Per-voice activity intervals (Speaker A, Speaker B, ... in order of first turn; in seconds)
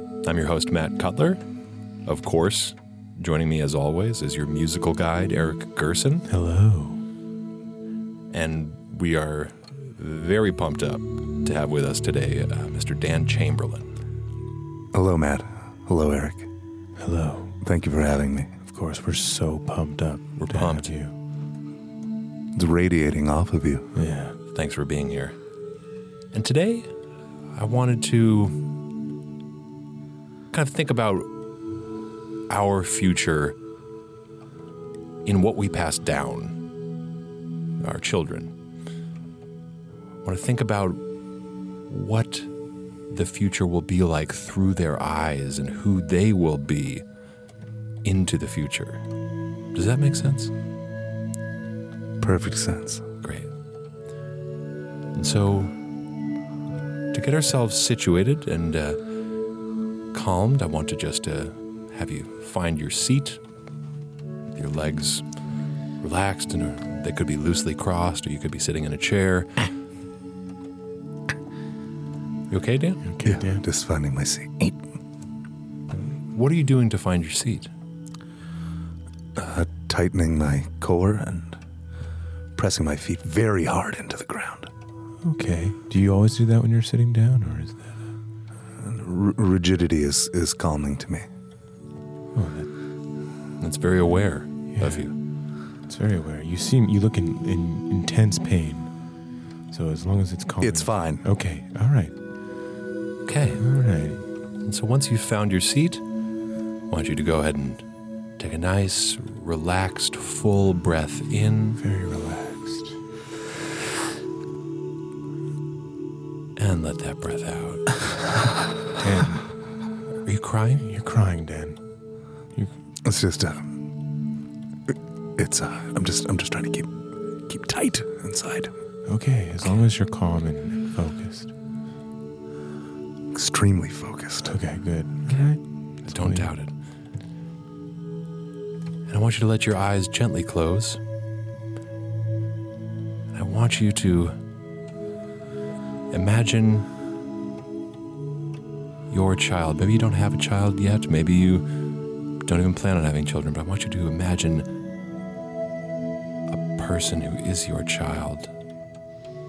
Speaker A: 0.2-1.4, 2.0-6.3, 8.3-13.9, 20.4-20.9, 24.5-25.4, 26.3-26.9, 27.6-28.6, 30.5-31.3, 32.5-33.6, 35.2-36.6, 37.8-38.5, 40.2-41.0, 41.9-42.5, 43.1-47.0, 48.0-49.0, 49.7-50.5, 53.2-53.5, 55.1-55.8, 57.1-59.0, 60.1-63.4, 64.5-65.3, 66.0-69.7, 72.5-73.0, 76.2-77.7, 93.6-95.2, 103.2-103.6, 104.6-106.0, 106.9-107.8, 108.4-111.8, 116.6-118.0, 120.2-120.9, 136.1-136.7, 139.1-141.0, 143.3-144.4, 146.1-146.9, 149.1-151.7, 152.4-154.7, 156.5-158.5
Speaker B: 6.3-7.0, 17.0-17.6, 18.6-21.1, 23.9-24.4, 73.0-73.6, 85.2-88.0, 92.3-92.7, 94.7-95.1, 95.9-98.9, 99.7-102.2, 103.5-104.2, 111.8-113.0, 119.0-119.5, 120.8-121.8, 129.1-131.5, 134.4-136.5
Speaker C: 14.9-16.5, 17.6-18.5, 22.6-23.9, 52.2-53.0, 73.2-74.8, 79.4-81.6, 82.6-84.7, 88.8-91.3, 100.6-101.2, 123.0-123.7, 125.4-126.9, 127.5-128.7, 133.3-134.5